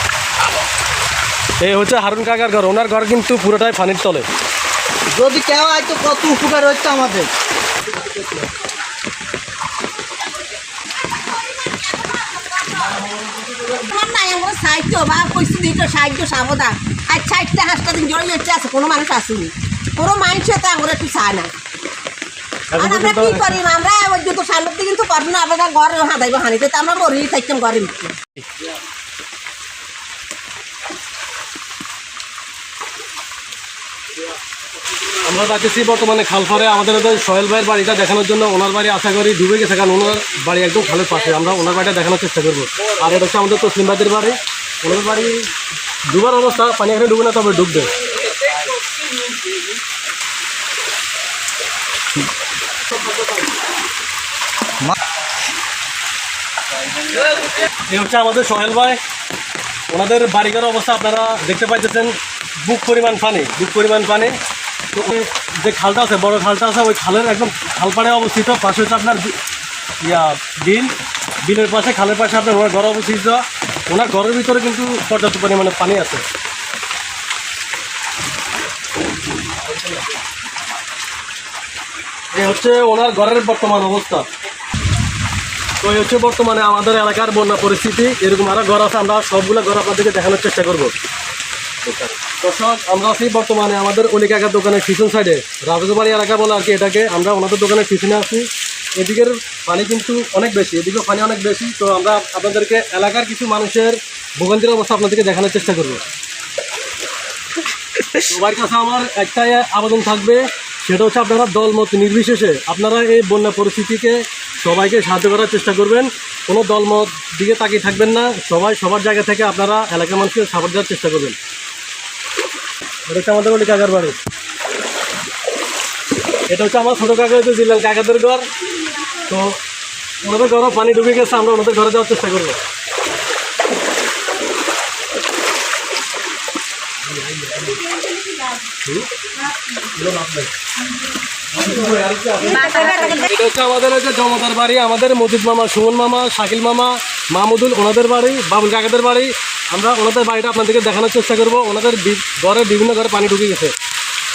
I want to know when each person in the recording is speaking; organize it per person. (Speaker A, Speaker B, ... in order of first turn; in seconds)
Speaker A: 1.6-4.3, 22.7-23.6, 35.2-45.5, 46.0-47.9, 52.9-53.5, 57.7-59.0, 59.9-64.3, 64.9-69.4, 70.0-76.2, 79.6-80.0, 82.3-84.3, 85.8-90.9, 91.9-106.0, 108.2-121.4, 123.1-124.2, 126.5-128.5, 129.2-129.6, 130.2-132.6, 137.1-137.9, 138.8-139.1, 139.8-140.5, 141.5-153.8
Speaker B: 5.1-7.3
Speaker C: 10.5-21.5, 22.8-28.1, 142.5-143.2